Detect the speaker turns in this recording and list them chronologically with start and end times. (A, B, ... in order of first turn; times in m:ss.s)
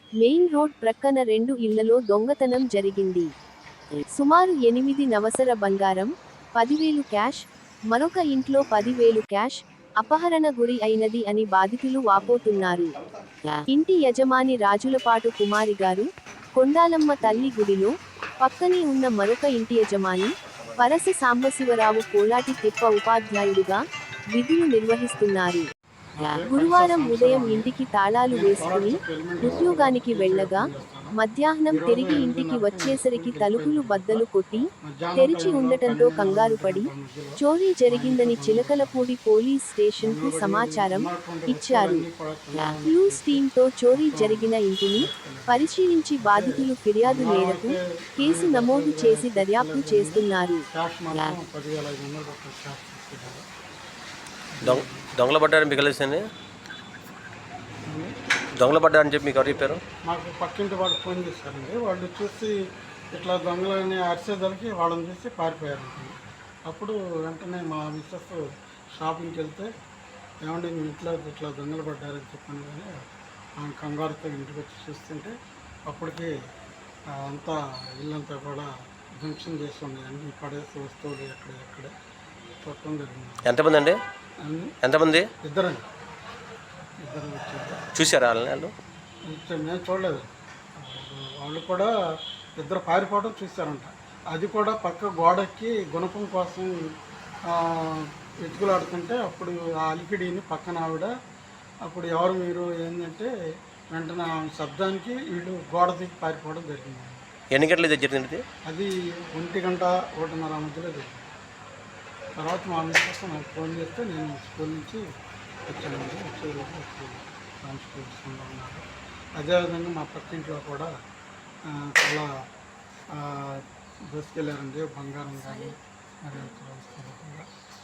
0:00.2-0:03.3 A
0:04.1-0:12.9 A
0:13.7-0:23.8 A
0:24.3-0:25.7 A
0:26.2-0:27.7 B
0:26.5-0:36.9 A
0:28.3-0:31.2 B
0:31.7-0:34.2 B
0:34.8-0:39.1 B
0:37.4-0:42.0 A
0:40.0-0:43.4 B
0:42.9-0:50.6 A
0:43.9-0:53.5 B
0:54.5-0:55.1 B
0:54.6-0:56.2 C
0:57.9-0:58.2 B
0:58.6-0:59.8 C
1:00.0-1:02.6 B
1:03.1-1:08.4 B
1:09.0-1:09.7 B
1:10.4-1:13.1 B
1:13.6-1:15.3 B
1:15.9-1:16.3 B
1:17.1-1:21.9 B
1:22.6-1:23.5 B
1:23.4-1:24.0 C
1:24.4-1:24.7 B
1:24.8-1:25.2 C
1:25.4-1:25.8 B
1:27.0-1:27.8 B
1:28.0-1:28.7 C
1:29.3-1:31.9 B
1:32.6-1:36.8 B
1:37.5-1:41.1 B
1:41.8-1:43.3 B
1:43.9-1:47.3 B
1:47.5-1:48.4 C
1:48.7-1:51.3 B
1:52.4-1:55.0 B
1:55.7-1:58.8 B
1:59.4-2:00.9 B
2:01.7-2:02.3 B
2:03.1-2:07.5 B